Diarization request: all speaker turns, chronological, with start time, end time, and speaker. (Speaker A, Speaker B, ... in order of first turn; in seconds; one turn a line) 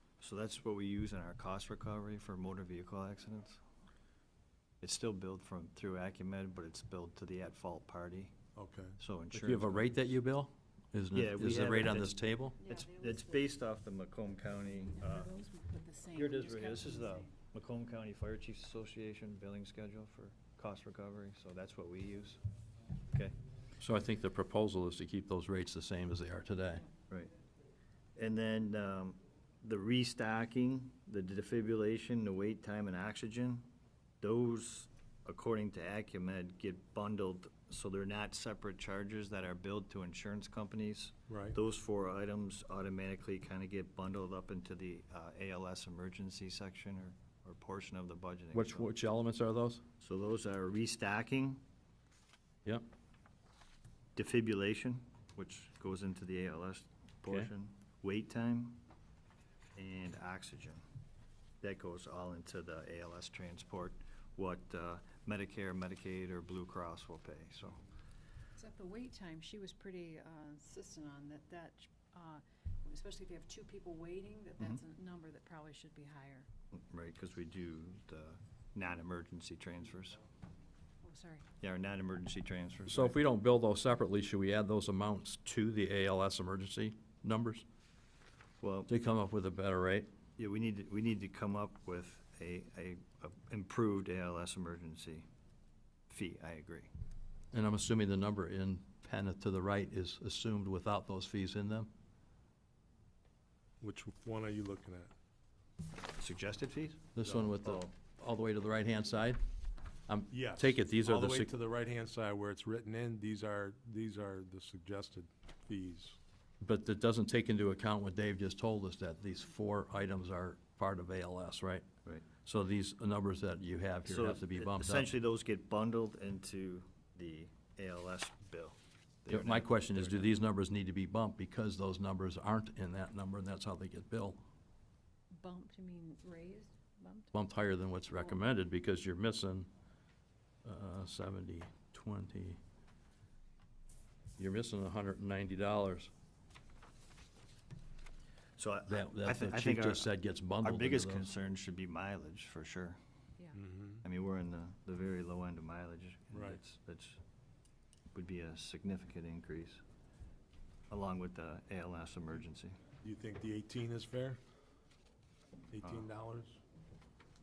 Speaker A: 0.2-3.6
Speaker A: 4.8-8.3
Speaker B: 8.6-9.0
Speaker A: 9.0-9.8
Speaker C: 9.3-12.6
Speaker A: 11.1-15.3
Speaker D: 12.6-13.5
Speaker D: 14.9-17.3
Speaker A: 16.1-22.4
Speaker C: 23.8-26.9
Speaker A: 28.2-33.7
Speaker A: 34.2-48.9
Speaker B: 41.3-41.6
Speaker C: 48.5-49.8
Speaker A: 50.0-51.6
Speaker A: 54.2-58.8
Speaker A: 59.8-60.8
Speaker A: 61.6-67.8
Speaker D: 68.6-76.5
Speaker A: 76.7-80.2
Speaker D: 81.0-81.5
Speaker A: 81.6-83.2
Speaker C: 82.9-87.7
Speaker A: 88.6-88.9
Speaker C: 88.9-90.1
Speaker A: 90.4-95.3
Speaker A: 96.1-96.9
Speaker C: 97.5-101.9
Speaker B: 103.8-105.1
Speaker A: 106.2-107.9
Speaker C: 107.2-109.4
Speaker B: 107.2-107.5
Speaker C: 110.1-111.5
Speaker B: 110.3-116.2
Speaker C: 116.6-121.9
Speaker C: 122.4-125.1
Speaker A: 124.0-130.4
Speaker C: 129.3-134.4
Speaker D: 135.3-137.4
Speaker C: 137.3-139.7
Speaker D: 138.1-138.4
Speaker C: 140.6-142.6
Speaker C: 144.4-146.1
Speaker A: 148.6-153.0
Speaker C: 148.9-151.3
Speaker B: 153.5-154.0
Speaker A: 154.0-157.2
Speaker B: 156.3-156.6
Speaker A: 158.1-159.8
Speaker A: 160.9-162.8
Speaker B: 163.0-164.4
Speaker B: 165.7-166.6
Speaker A: 165.8-166.1